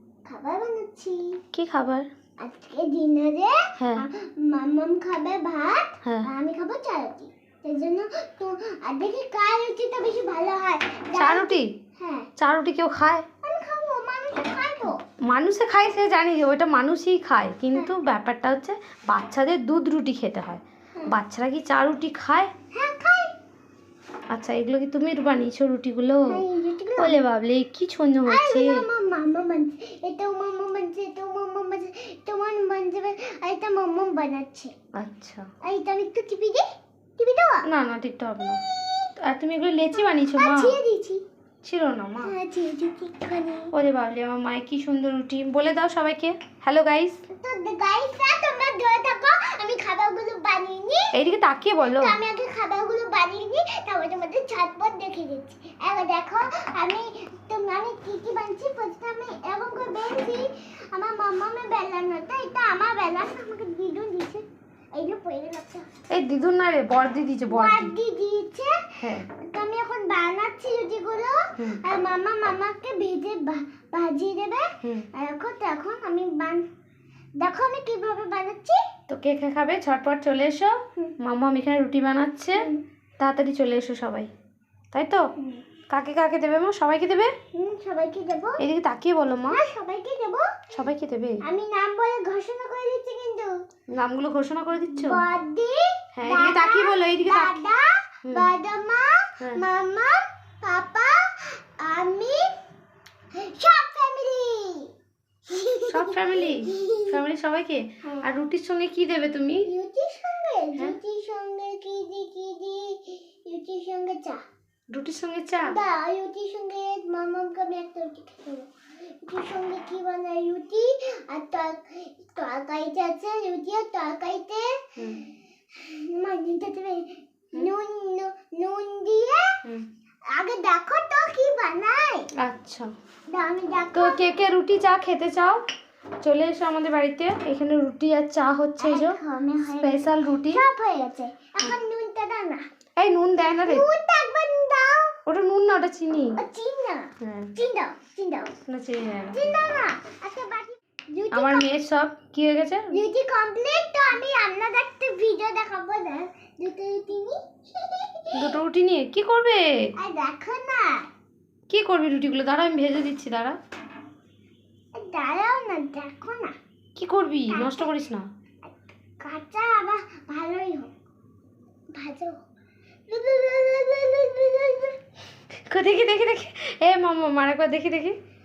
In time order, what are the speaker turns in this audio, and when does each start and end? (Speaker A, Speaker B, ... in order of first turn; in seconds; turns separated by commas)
Speaker A: 0.3-1.4, Speaker B: 1.5-2.1, Speaker A: 2.4-12.3, Speaker B: 3.8-4.0, Speaker B: 11.2-11.7, Speaker B: 12.4-13.3, Speaker A: 13.4-15.0, Speaker B: 15.3-22.5, Speaker A: 22.7-23.4, Speaker B: 24.3-26.4, Speaker A: 26.3-27.2, Speaker B: 27.0-28.9, Speaker A: 28.3-34.7, Speaker B: 35.0-35.5, Speaker A: 35.6-36.7, Speaker A: 37.2-37.7, Speaker B: 37.7-38.6, Speaker A: 38.5-39.1, Speaker B: 39.2-40.8, Speaker A: 40.0-41.2, Speaker B: 41.6-42.3, Speaker A: 42.2-43.7, Speaker B: 43.7-47.2, Speaker A: 47.3-51.1, Speaker B: 51.1-52.2, Speaker A: 51.9-65.9, Speaker B: 66.1-67.9, Speaker A: 67.5-76.7, Speaker B: 69.0-69.3, Speaker A: 77.4-78.8, Speaker B: 79.1-84.3, Speaker A: 82.6-82.8, Speaker B: 84.9-85.3, Speaker A: 85.4-85.7, Speaker B: 85.9-87.3, Speaker A: 87.5-88.6, Speaker B: 88.6-89.7, Speaker A: 89.5-90.6, Speaker B: 90.7-91.4, Speaker A: 91.5-93.5, Speaker B: 93.9-95.2, Speaker A: 94.9-102.5, Speaker B: 96.2-97.6, Speaker A: 103.3-104.9, Speaker A: 105.5-107.2, Speaker B: 105.9-109.7, Speaker A: 109.6-114.4, Speaker B: 114.9-115.8, Speaker A: 115.6-118.7, Speaker A: 119.2-124.8, Speaker B: 125.0-125.2, Speaker A: 125.8-129.6, Speaker A: 130.3-132.3, Speaker B: 132.4-132.9, Speaker A: 133.3-134.2, Speaker B: 133.9-135.6, Speaker B: 136.2-139.2, Speaker A: 138.8-142.6, Speaker B: 139.8-140.6, Speaker B: 143.0-143.8, Speaker A: 143.4-145.2, Speaker B: 145.3-146.4, Speaker A: 146.4-148.6, Speaker B: 147.2-147.5, Speaker B: 148.7-149.5, Speaker A: 149.3-151.7, Speaker B: 151.3-152.9, Speaker A: 152.9-158.6, Speaker B: 158.3-159.7, Speaker A: 160.0-161.1, Speaker B: 161.7-163.6, Speaker A: 164.9-166.6, Speaker B: 167.0-168.3, Speaker A: 167.5-167.9, Speaker A: 168.6-170.9, Speaker A: 171.9-172.4, Speaker A: 173.1-175.0, Speaker B: 175.7-178.2